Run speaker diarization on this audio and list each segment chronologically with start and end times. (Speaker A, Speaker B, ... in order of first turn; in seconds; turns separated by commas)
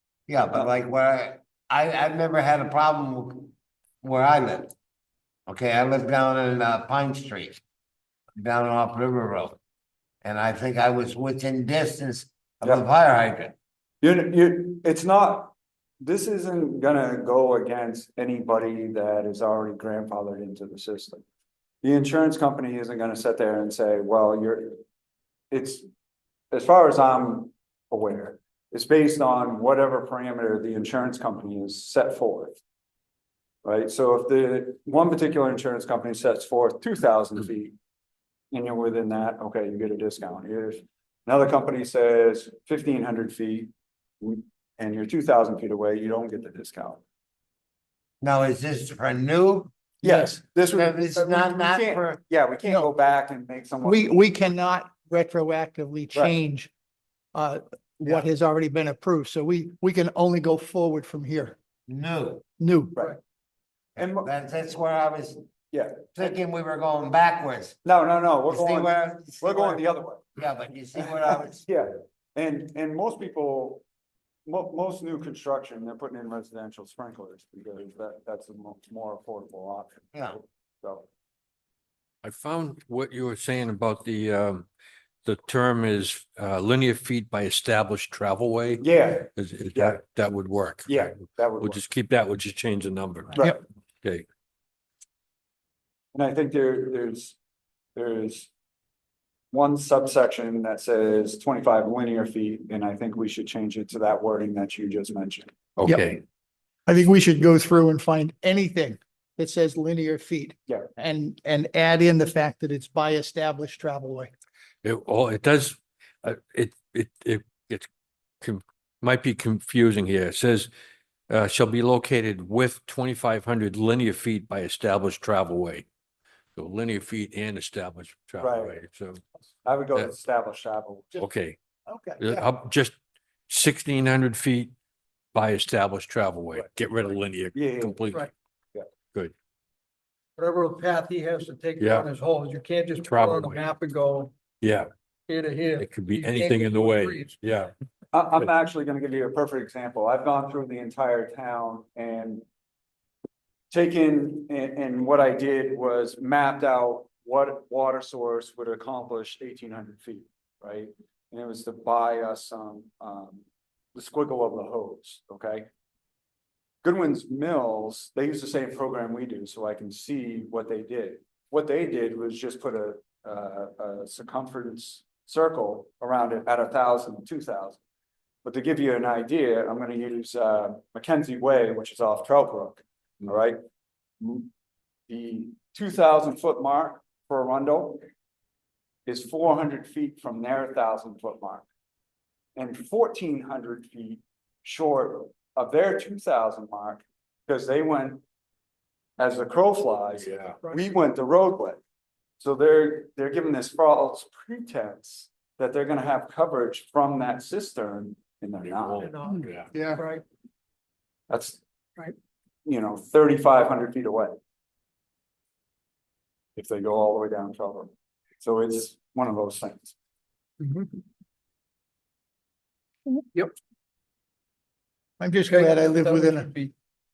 Speaker A: 0.3-4.7, Speaker A: 5.5-7.6, Speaker A: 8.3-9.6, Speaker A: 10.2-13.5, Speaker B: 14.0-21.2, Speaker B: 21.8-24.8, Speaker B: 25.5-25.9, Speaker B: 26.5-32.6, Speaker B: 33.6-37.7, Speaker B: 38.5-43.7, Speaker B: 44.2-47.0, Speaker A: 48.2-49.7, Speaker B: 50.0-54.2, Speaker C: 50.0-50.3, Speaker A: 50.7-52.2, Speaker C: 53.8-56.7, Speaker C: 57.3-61.6, Speaker A: 61.9-62.4, Speaker C: 62.6-63.0, Speaker B: 64.0-64.3, Speaker A: 64.0-65.4, Speaker B: 65.7-66.3, Speaker A: 66.1-67.8, Speaker B: 67.8-70.2, Speaker A: 68.5-69.8, Speaker A: 70.3-71.7, Speaker B: 71.0-73.8, Speaker B: 74.5-81.0, Speaker A: 80.1-80.4, Speaker D: 82.2-84.7, Speaker D: 85.2-93.5, Speaker B: 88.8-90.0, Speaker B: 90.8-91.8, Speaker B: 93.3-93.6, Speaker B: 96.1-97.3, Speaker B: 97.9-98.5, Speaker B: 99.5-105.5, Speaker D: 105.8-106.2, Speaker C: 105.8-106.1, Speaker C: 106.9-114.3, Speaker D: 114.8-117.9, Speaker D: 118.4-120.7, Speaker D: 121.3-125.8, Speaker D: 126.5-129.2, Speaker B: 128.4-128.8, Speaker B: 129.6-131.2, Speaker D: 131.2-131.6, Speaker C: 131.9-132.4, Speaker D: 132.2-132.9, Speaker D: 133.5-134.7, Speaker D: 135.3-138.3, Speaker B: 137.5-138.0, Speaker E: 140.4-144.3, Speaker D: 141.8-142.1, Speaker D: 143.0-143.6, Speaker D: 144.6-144.9, Speaker E: 145.3-147.3, Speaker D: 145.8-147.7, Speaker B: 148.1-152.4, Speaker B: 153.7-163.4, Speaker B: 163.9-165.7, Speaker B: 166.8-177.8, Speaker B: 178.4-183.6, Speaker B: 184.2-184.5, Speaker B: 185.1-188.0, Speaker B: 189.1-191.7, Speaker B: 192.6-198.2, Speaker B: 199.2-201.8, Speaker D: 200.2-200.6, Speaker B: 202.4-209.1, Speaker D: 208.8-209.7, Speaker E: 209.0-210.2, Speaker C: 209.7-210.0, Speaker B: 211.3-211.6, Speaker B: 212.6-214.4, Speaker B: 216.6-219.9, Speaker C: 225.2-226.5, Speaker E: 225.5-226.7